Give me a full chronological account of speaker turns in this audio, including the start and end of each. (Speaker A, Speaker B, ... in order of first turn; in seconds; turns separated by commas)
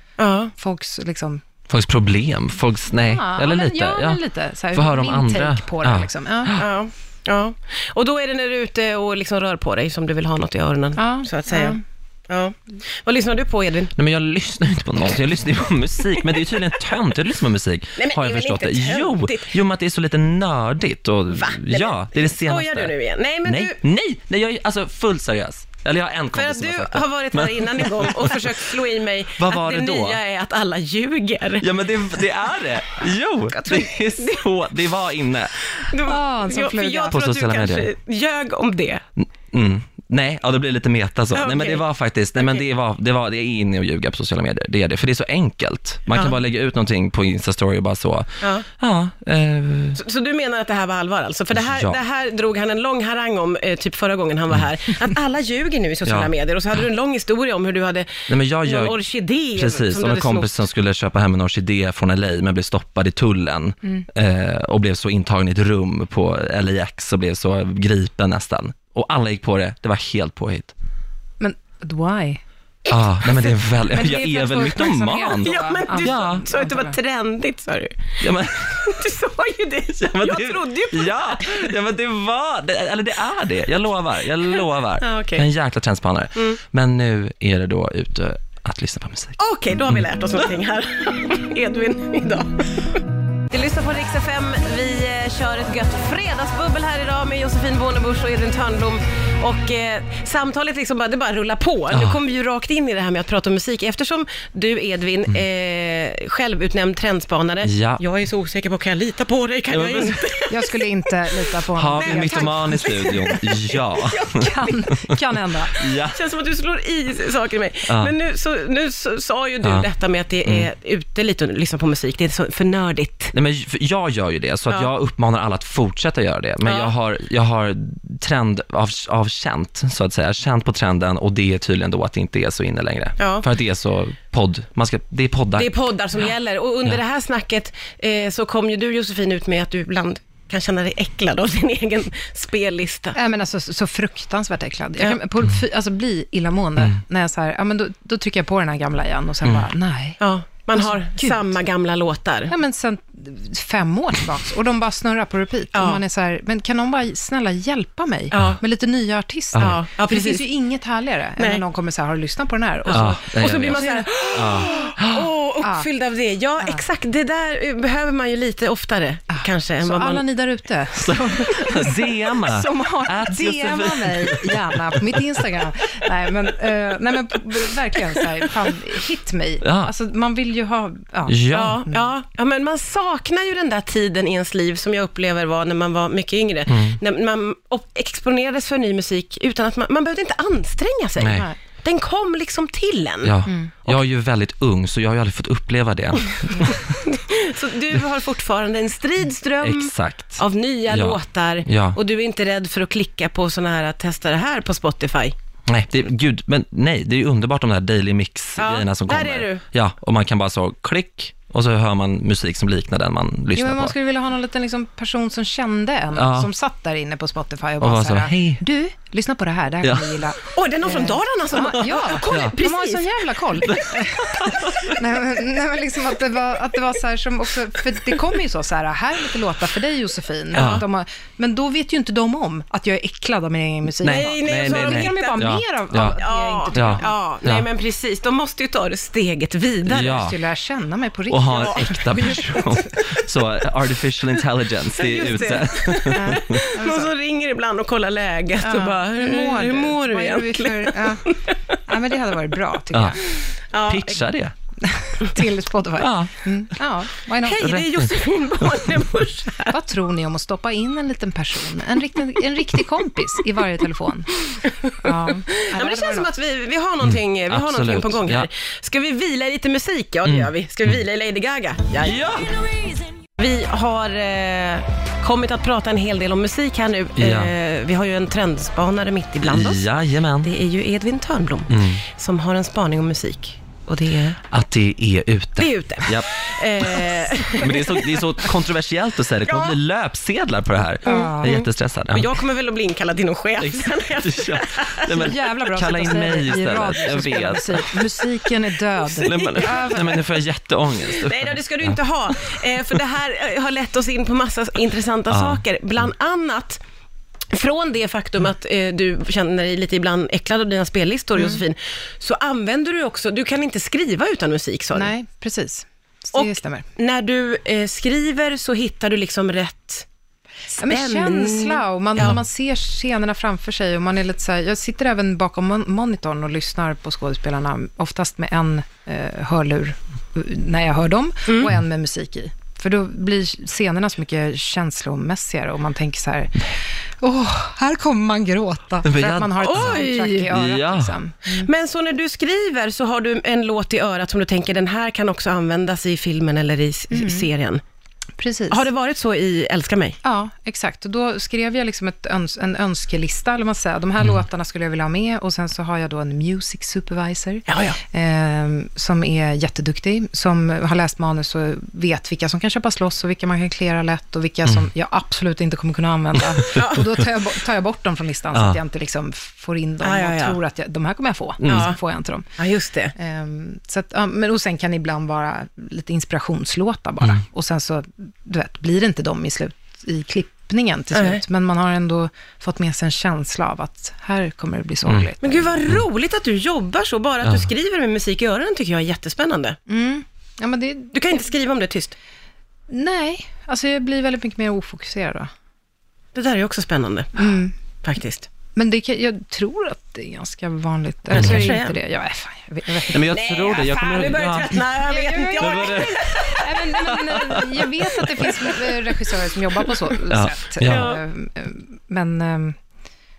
Speaker A: 0.2-0.5, Speaker B: 0.5-1.4, Speaker C: 1.7-4.2, Speaker B: 2.9-6.6, Speaker C: 4.7-6.6, Speaker A: 6.5-13.9, Speaker B: 11.0-11.8, Speaker C: 13.9-22.9, Speaker A: 17.9-19.5, Speaker A: 21.3-23.8, Speaker C: 23.4-28.6, Speaker A: 26.3-31.7, Speaker C: 29.4-30.2, Speaker C: 31.6-35.5, Speaker A: 33.5-34.4, Speaker A: 35.8-39.0, Speaker B: 36.0-37.2, Speaker C: 37.1-37.9, Speaker C: 39.2-50.0, Speaker A: 41.3-41.8, Speaker A: 48.4-48.6, Speaker A: 50.0-60.5, Speaker C: 51.5-52.0, Speaker C: 56.0-56.3, Speaker C: 58.3-59.0, Speaker C: 59.5-70.7, Speaker B: 71.4-72.4, Speaker C: 72.9-76.5, Speaker B: 73.9-77.0, Speaker A: 75.4-81.7, Speaker C: 78.2-79.0, Speaker C: 80.0-89.4, Speaker A: 84.5-85.5, Speaker A: 89.4-110.8, Speaker C: 101.9-102.2, Speaker C: 107.6-108.0, Speaker C: 109.7-110.2, Speaker B: 110.5-112.9, Speaker C: 111.7-114.5, Speaker A: 112.0-114.7, Speaker B: 114.3-115.8, Speaker C: 115.8-116.2, Speaker A: 116.1-123.3, Speaker C: 117.9-118.1, Speaker C: 119.6-119.9, Speaker C: 123.3-135.7, Speaker A: 126.6-126.9, Speaker A: 133.2-133.5, Speaker A: 135.5-143.2, Speaker B: 143.1-150.2, Speaker A: 150.2-152.5, Speaker B: 150.7-151.5, Speaker B: 152.5-164.1, Speaker A: 155.7-156.0, Speaker A: 158.3-158.6, Speaker A: 159.6-160.4, Speaker A: 161.4-161.6, Speaker A: 162.8-170.2, Speaker C: 162.9-165.3, Speaker B: 165.6-165.9, Speaker B: 169.3-181.4, Speaker C: 170.9-175.4, Speaker C: 179.6-179.9, Speaker C: 181.3-181.8, Speaker A: 181.5-193.3, Speaker C: 186.7-187.0, Speaker C: 191.2-191.5, Speaker C: 193.2-197.0, Speaker B: 193.5-193.7, Speaker A: 196.6-205.3, Speaker C: 199.6-202.0, Speaker C: 205.7-213.9, Speaker A: 208.6-209.6, Speaker B: 213.5-237.1, Speaker C: 216.1-216.5, Speaker C: 217.8-218.6, Speaker C: 219.8-220.2, Speaker A: 220.5-223.1, Speaker C: 222.3-222.5, Speaker C: 223.6-224.9, Speaker A: 230.5-230.8, Speaker C: 230.5-230.8, Speaker C: 234.0-236.2, Speaker A: 234.0-235.4, Speaker A: 236.0-240.2, Speaker C: 236.7-237.6, Speaker C: 239.9-240.3, Speaker B: 239.9-242.8, Speaker C: 241.3-246.6, Speaker A: 241.5-242.8, Speaker A: 244.9-251.5, Speaker B: 246.1-247.1, Speaker B: 248.6-253.2, Speaker C: 252.9-253.2, Speaker A: 253.7-254.2, Speaker C: 253.8-254.5, Speaker B: 254.8-257.8, Speaker C: 256.0-256.4, Speaker A: 257.4-259.8, Speaker C: 257.6-259.0, Speaker B: 259.7-266.3, Speaker A: 264.6-279.9, Speaker C: 267.0-268.5, Speaker C: 270.2-270.5, Speaker C: 272.0-272.6, Speaker C: 277.2-277.5, Speaker C: 279.4-280.5, Speaker A: 280.4-284.4, Speaker C: 281.7-282.0, Speaker C: 284.5-292.4, Speaker A: 285.6-288.2, Speaker A: 289.4-289.8, Speaker B: 291.0-291.6, Speaker A: 291.0-295.3, Speaker C: 293.6-298.0, Speaker B: 295.1-300.2, Speaker C: 299.2-302.6, Speaker A: 299.3-300.2, Speaker A: 301.0-306.8, Speaker C: 305.3-305.6, Speaker A: 307.5-315.1, Speaker B: 314.9-316.8, Speaker A: 316.3-320.1, Speaker B: 320.8-341.7, Speaker A: 320.8-322.4, Speaker A: 331.5-331.7, Speaker C: 339.0-341.1, Speaker A: 339.6-340.5, Speaker A: 341.5-347.8, Speaker B: 347.1-347.5, Speaker B: 348.4-348.8, Speaker A: 348.7-350.2, Speaker B: 350.2-372.5, Speaker A: 357.7-358.0, Speaker A: 366.7-367.0, Speaker C: 368.5-368.8, Speaker A: 370.0-370.6, Speaker C: 371.6-371.9, Speaker A: 371.6-372.0, Speaker A: 372.6-373.1, Speaker B: 373.1-385.9, Speaker A: 381.1-381.4, Speaker A: 385.4-389.8, Speaker B: 389.9-391.1, Speaker A: 391.1-392.1, Speaker B: 392.9-395.5, Speaker A: 396.3-397.4, Speaker B: 397.4-397.7, Speaker A: 398.0-398.5, Speaker B: 398.8-403.3, Speaker A: 401.3-401.9, Speaker C: 401.3-401.7, Speaker C: 403.0-404.8, Speaker A: 403.2-407.1, Speaker B: 404.9-412.8, Speaker C: 405.6-408.6, Speaker A: 408.4-408.8, Speaker C: 410.3-411.1, Speaker A: 410.8-411.2